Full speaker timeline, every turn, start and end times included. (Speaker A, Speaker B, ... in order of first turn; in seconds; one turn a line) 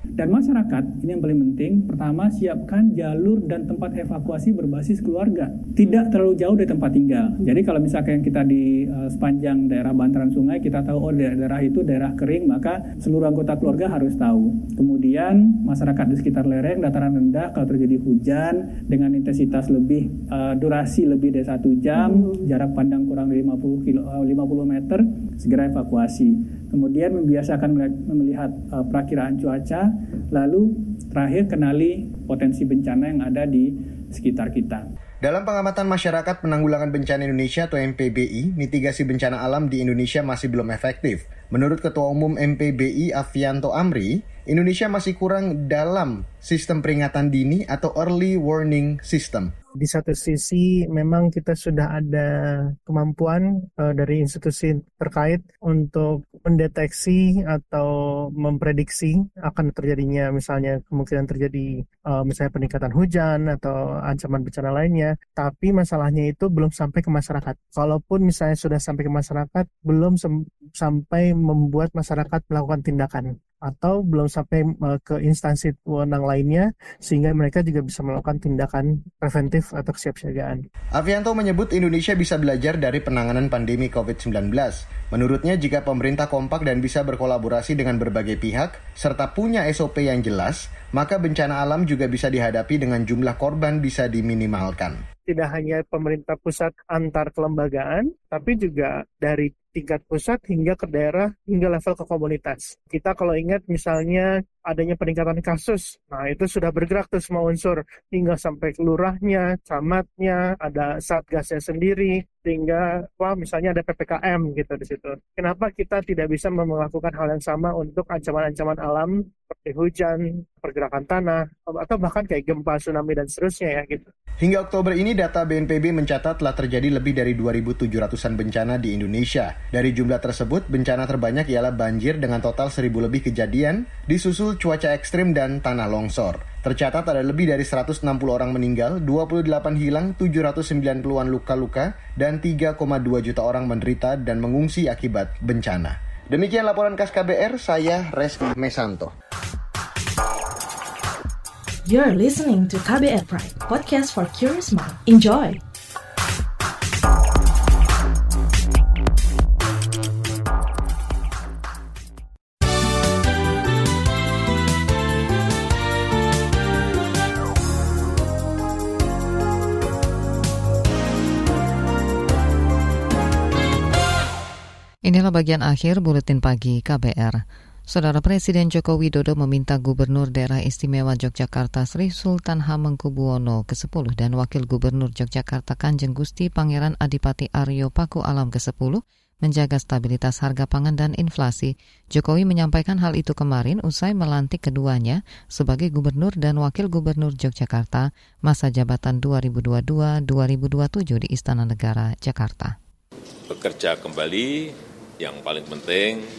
Speaker A: 0.2-34.9
Speaker B: 35.2-49.5
Speaker C: 49.8-52.3
Speaker C: 52.9-80.6
Speaker B: 81.0-95.0
Speaker C: 95.3-124.1
Speaker B: 124.4-149.1
Speaker D: 151.8-155.6
Speaker E: 175.1-202.8
Speaker F: 203.5-206.2